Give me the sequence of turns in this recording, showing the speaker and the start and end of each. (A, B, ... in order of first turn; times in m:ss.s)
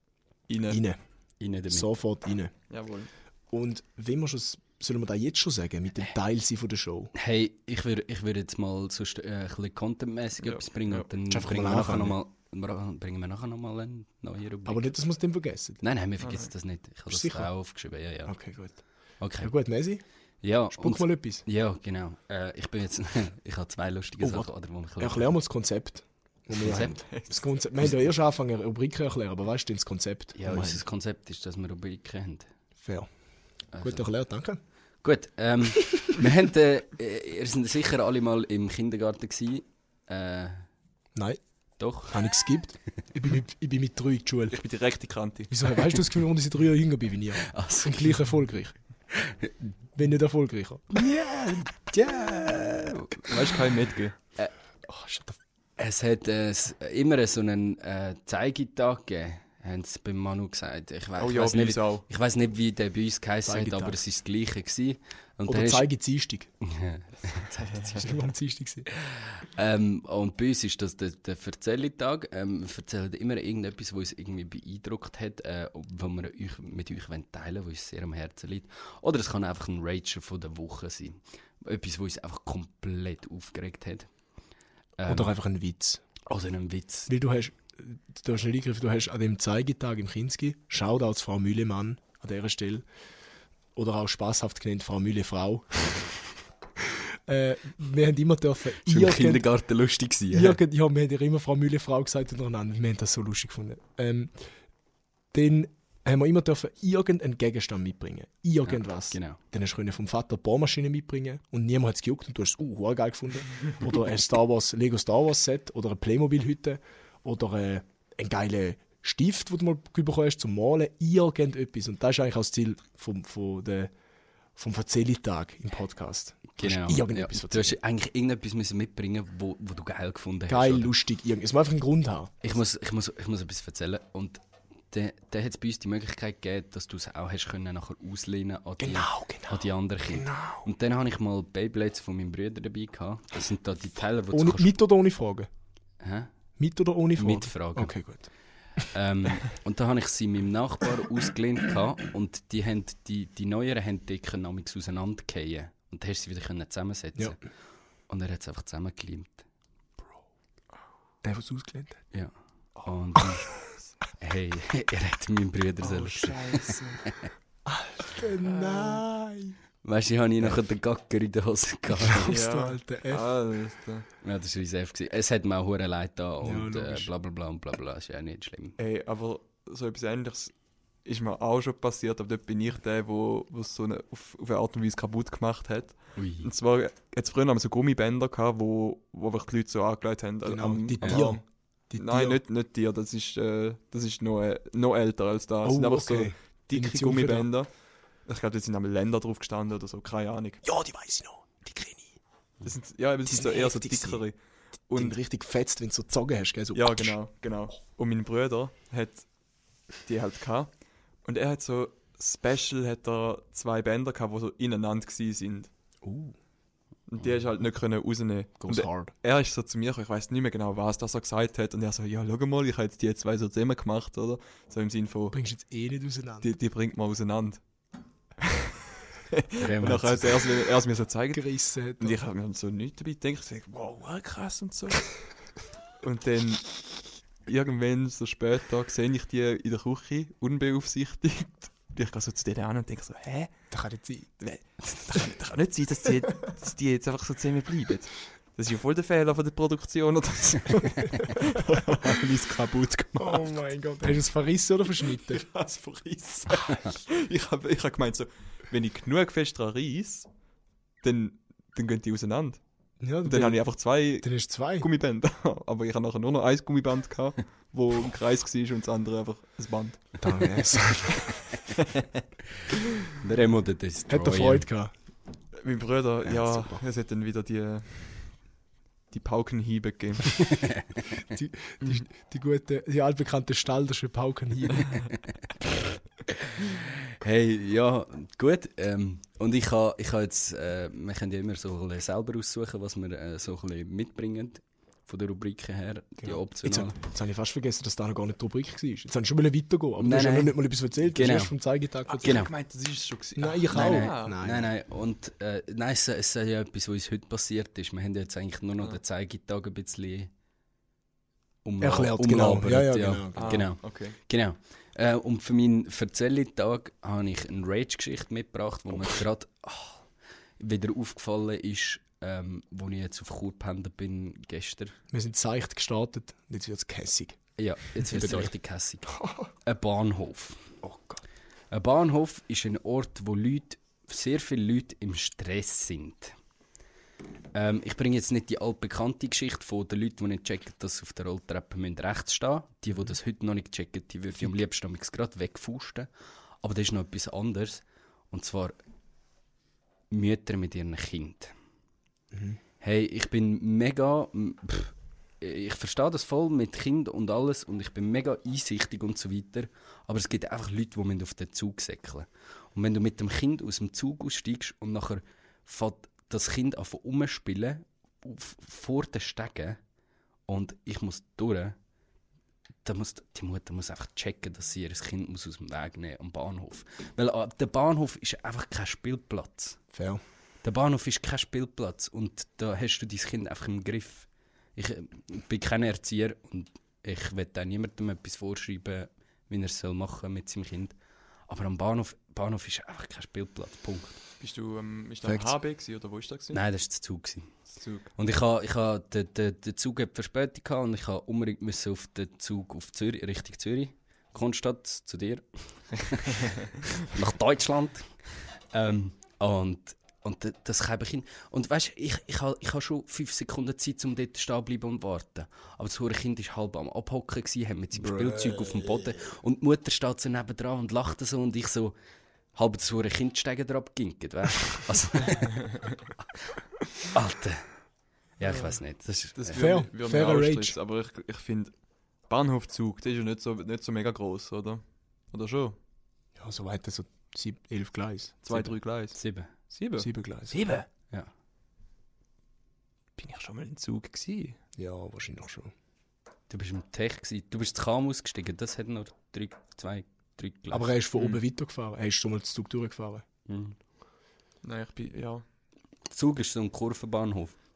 0:00.5-0:00.8 A
0:00.7-0:01.0 B
0:01.4-0:01.9 C
0:01.7-0:02.5 B
0:02.7-0:03.1 A
0:03.5-0:07.1 B
0:07.1-0:14.9 C
0:10.4-0:11.1 A
0:11.3-0:12.2 B
0:14.6-0:15.8 B
0:15.8-0:19.5 C
0:16.2-0:16.5 A
0:17.1-0:17.5 B
0:18.2-0:20.0 B
0:20.4-0:25.3 C
0:20.7-0:21.4 B
0:24.2-0:30.8 B
0:26.6-0:27.1 C
0:27.0-0:27.4 A
0:30.3-0:32.5 C
0:32.8-0:33.1 B
0:33.7-0:34.0 C
0:33.8-0:34.6 B
0:35.0-0:40.6 C
0:35.8-0:36.2 B
0:41.1-0:41.4 B
0:41.8-0:42.3 C
0:42.1-0:44.6 B
0:44.5-0:45.5 A
0:45.5-0:48.7 B
0:47.4-0:48.2 C
0:49.1-0:49.5 C
0:49.9-0:50.8 B
0:50.9-0:53.6 C
0:53.2-0:54.2 A
0:54.9-0:55.4 B
0:55.8-1:05.9 C
1:01.2-1:02.0 A
1:03.4-1:04.0 B
1:05.5-1:06.5 B
1:06.6-1:08.2 C
1:07.6-1:08.0 A
1:07.9-1:08.9 B
1:08.9-1:24.1 C
1:25.0-1:25.3 C
1:25.1-1:26.0 B
1:26.3-1:27.1 C
1:27.1-1:32.8 B
1:33.7-1:36.1 B
1:37.3-1:39.4 B
1:38.8-1:40.6 C
1:40.3-1:44.5 B
1:45.3-2:03.9 B
1:48.6-1:49.4 C
2:04.6-2:07.8 B
2:06.6-2:10.9 C
2:10.5-2:12.6 B
2:12.4-2:24.7 C
2:18.8-2:20.7 B
2:24.3-2:25.5 B
2:26.0-2:26.3 C
2:26.6-2:28.9 B
2:27.2-2:37.4 C
2:38.1-2:39.4 C
2:41.2-2:42.0 B
2:42.1-2:43.5 C
2:44.2-2:47.3 C
2:45.8-2:47.0 A
2:47.6-2:49.6 B
2:48.4-2:49.0 A
2:49.8-2:52.4 C
2:52.0-2:53.2 B
2:52.3-2:54.0 A
2:54.2-2:58.8 C
2:56.4-2:57.1 B
2:58.8-3:11.4 A
3:06.2-3:06.5 C
3:10.4-3:12.4 B
3:11.0-3:11.3 C
3:12.0-3:17.7 A
3:15.6-3:17.5 B
3:18.2-3:20.6 A
3:20.6-3:22.2 B
3:22.6-3:24.4 A
3:23.2-3:24.2 B
3:24.9-3:25.2 A
3:24.9-3:27.2 B
3:26.7-3:29.3 A
3:30.0-3:35.7 A
3:36.0-3:36.4 B
3:37.1-3:45.4 A
3:38.6-3:39.1 B
3:45.3-3:46.5 B
3:46.4-3:47.6 A
3:48.4-3:48.7 A
3:49.3-3:55.1 A
3:49.6-3:50.4 C
3:51.3-3:52.2 B
3:56.0-3:56.8 A
3:57.4-4:03.7 A
4:03.7-4:04.3 B
4:04.4-4:13.5 A
4:13.2-4:15.4 B
4:15.0-4:20.3 A
4:21.0-4:22.6 A
4:23.0-4:24.9 B
4:23.2-4:30.2 A
4:30.2-4:31.4 B
4:31.3-4:32.2 A
4:33.2-4:34.7 C
4:34.1-4:34.9 B
4:35.6-4:38.4 A
4:36.2-4:36.8 B
4:39.1-4:40.4 A
4:41.2-4:44.9 B
4:46.3-4:56.9 C
4:56.2-5:02.5 B
5:00.0-5:00.6 C
5:01.1-5:01.5 C
5:02.1-5:04.4 A
5:02.2-5:02.5 C
5:03.4-5:04.7 B
5:03.7-5:10.3 C
5:11.6-5:20.1 C
5:11.8-5:13.5 B
5:13.3-5:14.2 A
5:20.6-5:25.0 C
5:25.1-5:27.4 B
5:27.6-5:30.7 C
5:28.0-5:28.5 B
5:29.1-5:29.5 B
5:30.8-5:31.2 B
5:31.7-5:36.3 C
5:37.5-5:46.1 C
5:46.6-5:48.7 C
5:50.1-5:51.5 C
5:52.3-5:52.6 B
5:52.8-6:09.8 C
6:10.5-6:11.8 C
6:12.8-6:19.8 C
6:19.9-6:20.2 B
6:20.6-6:30.9 C
6:31.5-6:34.2 C
6:34.4-6:36.6 A
6:35.2-6:35.5 B
6:36.5-6:37.5 C
6:37.7-6:38.1 A
6:38.2-7:01.9 C
7:02.5-7:05.8 C
7:07.1-7:07.7 C
7:08.4-7:09.6 C
7:08.4-7:08.8 A
7:09.4-7:15.8 A
7:09.5-7:10.7 B
7:16.4-7:18.7 B
7:18.4-7:19.2 A
7:19.1-7:19.5 C
7:19.7-7:20.8 A
7:20.0-7:20.8 B
7:23.2-7:24.6 A
7:24.8-7:25.7 B
7:26.5-7:30.9 C
7:30.7-7:33.2 B
7:31.2-7:31.4 A
7:33.5-7:33.7 C
7:34.6-7:35.4 A
7:36.1-7:37.5 C